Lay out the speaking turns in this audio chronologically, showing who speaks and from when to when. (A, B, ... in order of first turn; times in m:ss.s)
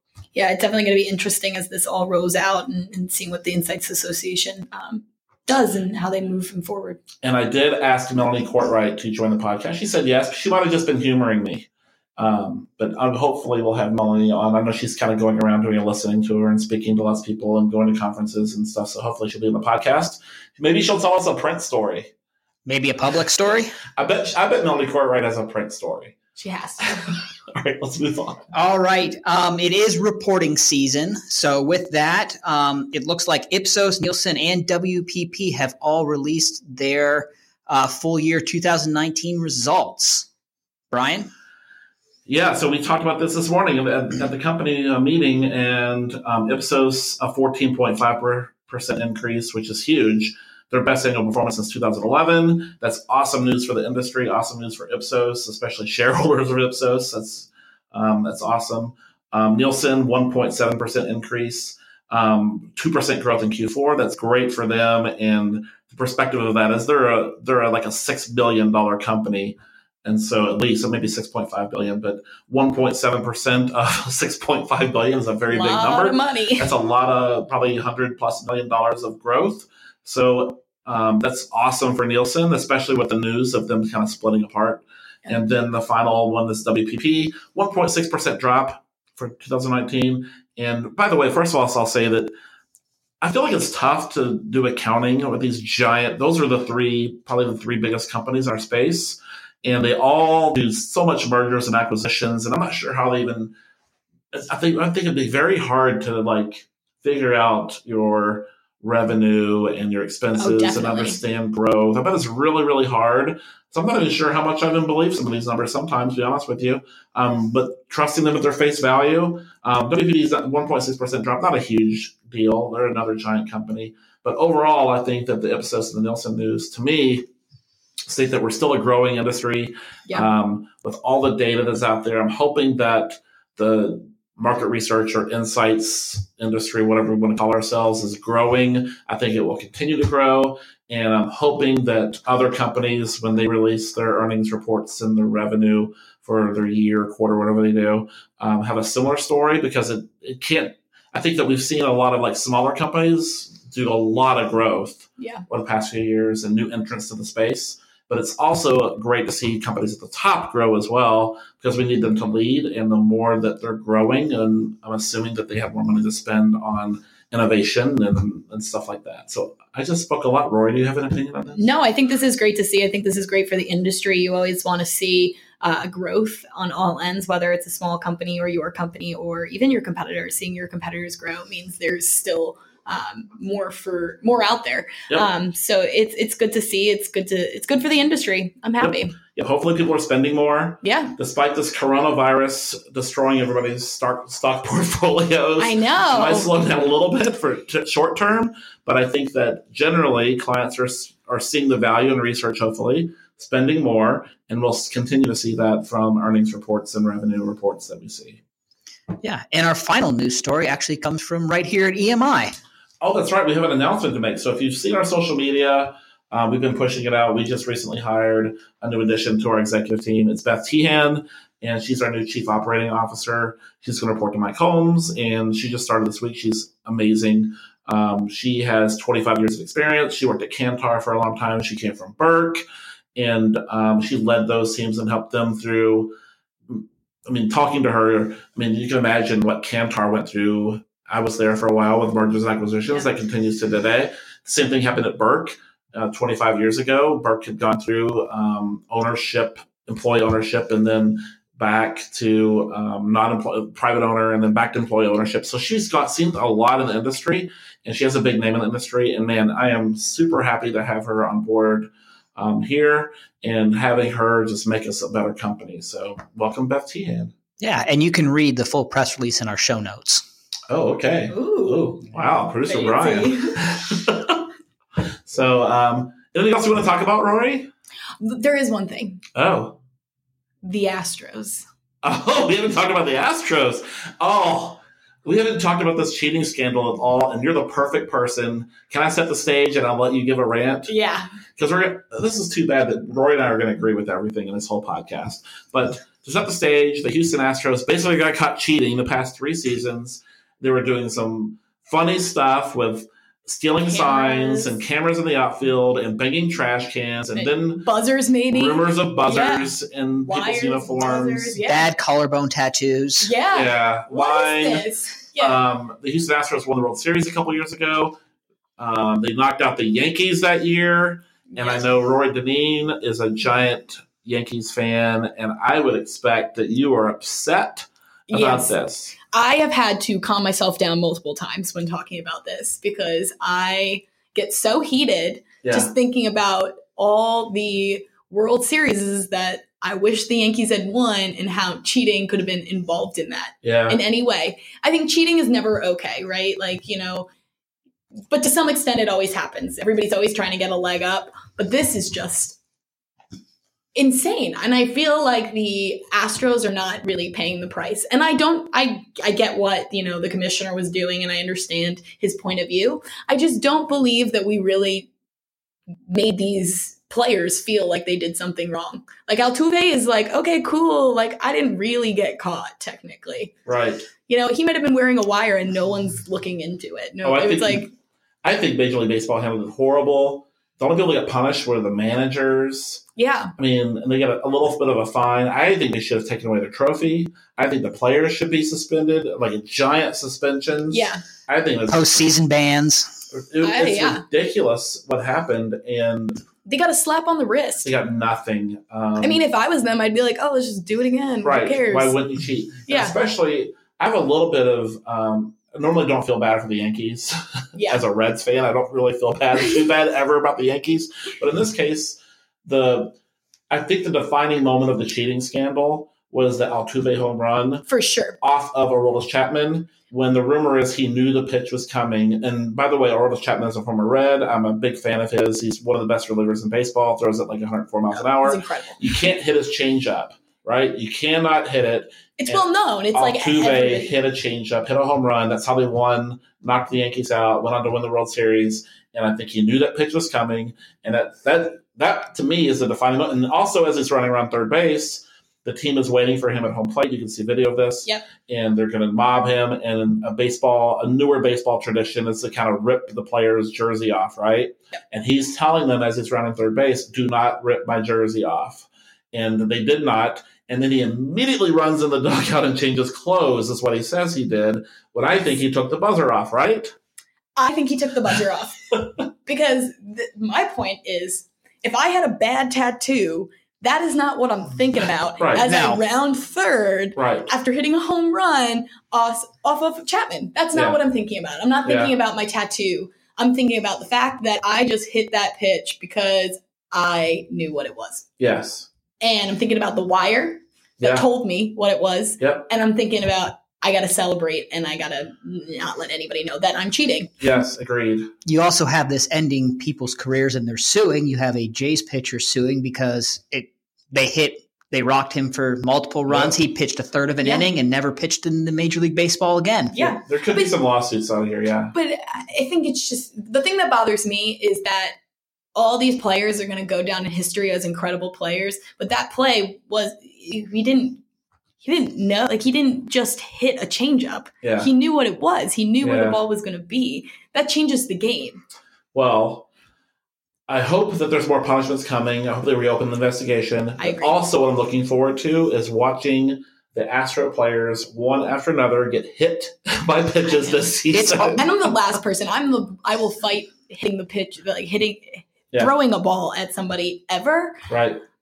0:00.3-0:07.0 A
0:07.2-0:22.1 B
0:22.6-0:23.8 C
0:24.0-0:26.2 B
0:26.4-0:27.2 A
0:27.1-0:28.4 B
0:28.5-0:40.3 C
0:40.9-0:41.3 C
0:42.2-1:32.3 B
1:15.5-1:16.7 A
1:33.2-1:43.5 B
1:44.3-2:07.3 B
1:50.4-1:51.2 A
2:08.1-2:51.7 B
2:35.2-2:35.4 A
2:51.6-3:09.2 A
3:08.8-3:28.4 B
3:10.8-3:11.1 A
3:15.6-3:16.6 A
3:29.2-3:32.5 C
3:33.0-3:52.6 B
3:53.2-3:56.2 B
3:56.7-4:27.4 B
4:27.6-4:30.2 C
4:30.7-4:34.4 B
4:31.3-4:33.6 A
4:35.2-4:37.7 B
4:38.2-4:39.2 A
4:39.3-4:39.8 B
4:40.6-4:41.6 A
4:42.0-4:50.9 B
4:50.9-4:51.3 A
4:51.6-5:07.9 B
5:03.8-5:04.8 A
5:07.3-5:09.7 A
5:08.5-5:11.6 B
5:10.2-5:11.9 A
5:11.6-5:13.3 C
5:13.2-5:15.6 A
5:13.5-5:18.2 B
5:18.8-5:29.1 B
5:21.5-5:21.8 A
5:28.3-5:47.3 A
5:35.6-5:35.9 B
5:43.6-5:44.0 B
5:48.3-5:52.6 A
5:53.9-6:05.1 A
6:06.1-6:13.6 A
6:13.6-6:14.1 B
6:14.2-6:17.9 A
6:17.2-6:17.9 B
6:18.4-6:23.0 B
6:23.2-6:23.5 A
6:23.6-6:32.3 B
6:30.9-6:31.2 A
6:31.9-6:33.2 C
6:33.3-6:36.4 B
6:33.6-6:34.2 A
6:36.6-6:37.9 A
6:37.8-6:39.4 B
6:39.2-6:42.2 A
6:41.4-6:53.1 B
6:42.9-6:43.1 A
6:47.8-6:48.0 A
6:53.7-6:57.8 B
6:57.9-6:58.4 A
6:58.4-7:12.6 B
7:08.1-7:09.0 A
7:12.4-7:14.1 A
7:13.1-7:46.9 B
7:47.6-8:08.3 A
7:55.4-7:55.7 B
7:55.6-7:56.0 C
7:57.2-7:57.5 B
8:01.8-8:02.1 B
8:08.4-8:08.9 B
8:09.2-8:17.4 A
8:11.0-8:11.3 B
8:12.4-8:12.7 B
8:17.4-8:18.3 B
8:18.4-8:30.0 C
8:26.3-8:26.6 B
8:29.9-8:30.7 A
8:30.0-8:31.9 B
8:31.9-8:35.2 A
8:35.7-8:41.2 A
8:41.8-8:48.6 A
8:44.6-8:44.9 B
8:46.0-8:46.4 B
8:49.1-8:49.7 B
8:50.7-9:01.7 B
8:54.0-8:54.4 A
9:01.1-9:01.7 C
9:01.6-9:07.8 A
9:07.9-9:08.2 B